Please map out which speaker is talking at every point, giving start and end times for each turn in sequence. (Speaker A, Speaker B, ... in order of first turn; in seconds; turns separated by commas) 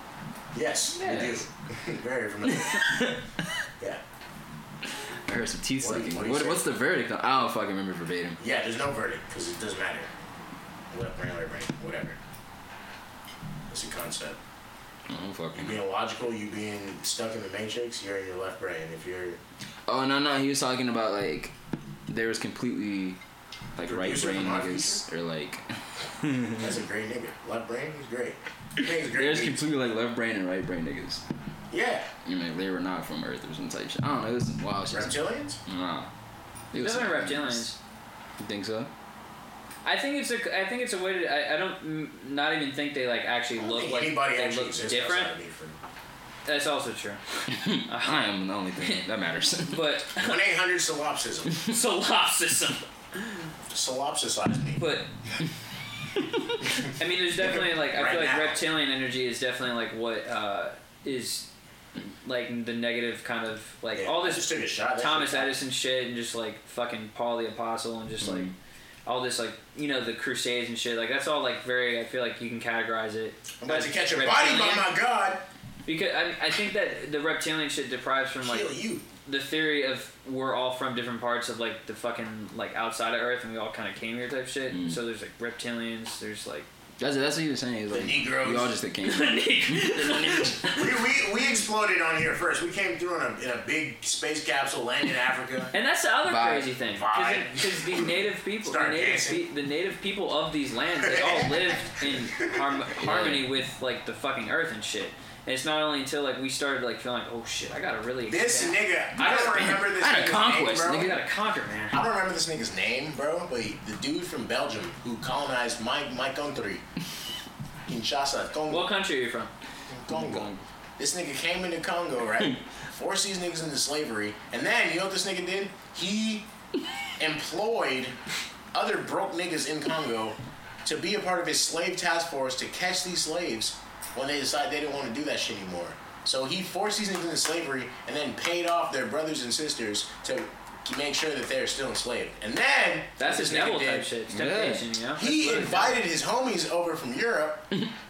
Speaker A: 0.5-3.0, Speaker B: 1.0-1.4, Speaker C: 1.0-1.3, Speaker B: 2.8-3.2, Speaker B: 5.3-8.4, Speaker A: 5.8-6.7, Speaker A: 8.4-10.1, Speaker A: 10.9-12.2, Speaker A: 13.7-14.4, Speaker B: 15.1-15.8, Speaker A: 15.5-19.4, Speaker B: 19.9-21.5, Speaker B: 22.1-23.2, Speaker B: 23.8-25.6, Speaker A: 23.9-25.0, Speaker B: 26.2-26.6, Speaker A: 26.6-29.6, Speaker B: 29.1-31.2, Speaker A: 31.7-32.1, Speaker B: 32.2-36.1, Speaker A: 34.9-35.6, Speaker B: 36.7-37.7, Speaker C: 36.7-37.8, Speaker B: 38.4-38.9, Speaker C: 39.8-45.3, Speaker A: 43.6-45.8, Speaker C: 46.5-48.3, Speaker B: 47.5-49.8, Speaker C: 49.6-50.4, Speaker A: 50.2-51.6, Speaker C: 51.6-53.5, Speaker A: 53.7-54.8, Speaker C: 54.8-55.1, Speaker C: 56.8-61.5, Speaker A: 57.4-58.6, Speaker C: 62.2-68.5, Speaker A: 64.0-65.5, Speaker B: 68.2-68.5, Speaker C: 69.0-74.9, Speaker A: 73.6-75.4, Speaker C: 75.8-78.7, Speaker A: 78.4-79.0, Speaker C: 79.2-86.7, Speaker B: 84.7-85.0, Speaker B: 87.0-90.5, Speaker A: 87.9-88.8, Speaker C: 89.0-91.0, Speaker A: 90.7-95.7, Speaker C: 95.7-109.9, Speaker B: 96.2-96.7, Speaker A: 96.9-98.0, Speaker A: 98.6-99.4, Speaker A: 101.0-101.8, Speaker A: 102.3-102.6, Speaker B: 103.0-103.4, Speaker A: 108.3-111.2, Speaker B: 110.0-111.2, Speaker C: 110.8-112.0, Speaker A: 111.9-116.8, Speaker A: 117.9-118.9, Speaker C: 118.7-119.5, Speaker A: 119.9-126.5, Speaker B: 120.1-120.6, Speaker A: 127.2-128.1, Speaker A: 128.7-144.1, Speaker C: 143.2-146.0, Speaker B: 144.3-144.8, Speaker A: 145.2-147.7